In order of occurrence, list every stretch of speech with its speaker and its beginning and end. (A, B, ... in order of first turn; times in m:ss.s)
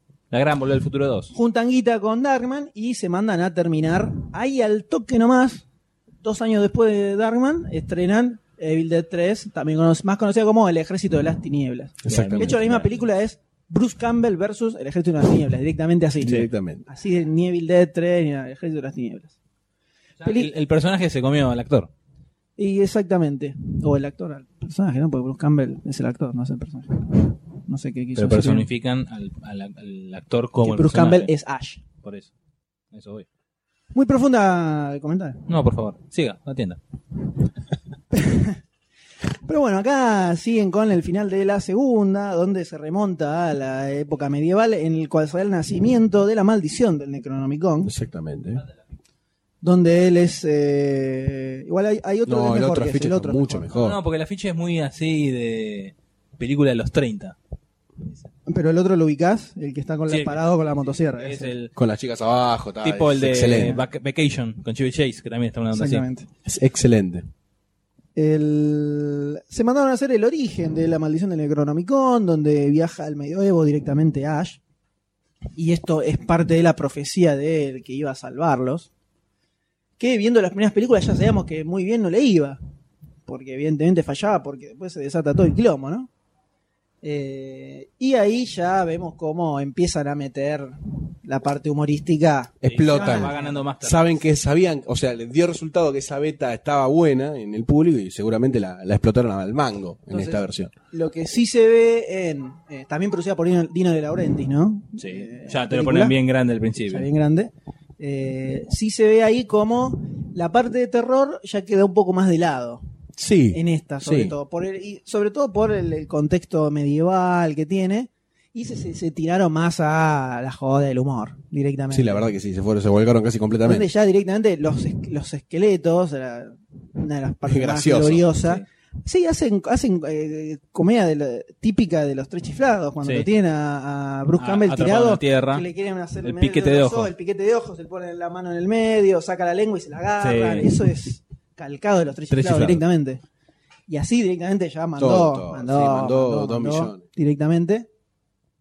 0:00.3-0:01.3 A
0:01.3-0:05.6 B
0:06.2-0:19.4 B
0:12.0-0:12.6 C
0:12.1-0:13.0 A
0:16.2-0:16.8 C
0:20.2-0:21.9 A
0:20.2-0:20.5 B
0:22.6-0:28.7 B
0:28.2-0:31.3 A
0:30.6-0:31.8 B
0:32.0-0:32.3 A
0:32.9-0:33.3 A
0:34.0-0:35.4 B
0:35.5-0:36.8 A
0:38.1-0:38.6 B
0:39.5-0:47.9 B
0:47.8-0:48.6 C
0:49.6-0:53.7 B
0:52.3-0:54.0 C
0:53.8-0:57.4 A
0:58.5-1:01.5 B
1:00.1-1:01.7 A
1:01.8-1:03.8 C
1:02.8-1:06.1 A
1:05.7-1:06.3 B
1:06.4-1:07.3 C
1:08.2-1:14.6 B
1:15.6-1:18.9 B
1:20.0-1:22.6 B
1:23.3-1:26.1 B
1:27.0-1:33.6 B
1:32.6-1:40.7 C
1:32.6-1:34.2 A
1:40.9-1:46.2 B
1:45.0-1:47.1 A
1:46.9-1:52.8 B
1:53.2-1:54.4 C
1:53.5-2:02.3 B
2:01.9-2:03.9 C
2:03.6-2:23.2 B
2:07.4-2:08.3 C
2:13.0-2:13.3 A
2:14.4-2:15.7 A
2:16.2-2:17.1 A
2:20.2-2:20.8 A
2:22.3-2:22.8 A
2:23.9-2:27.9 B
2:25.0-2:27.0 C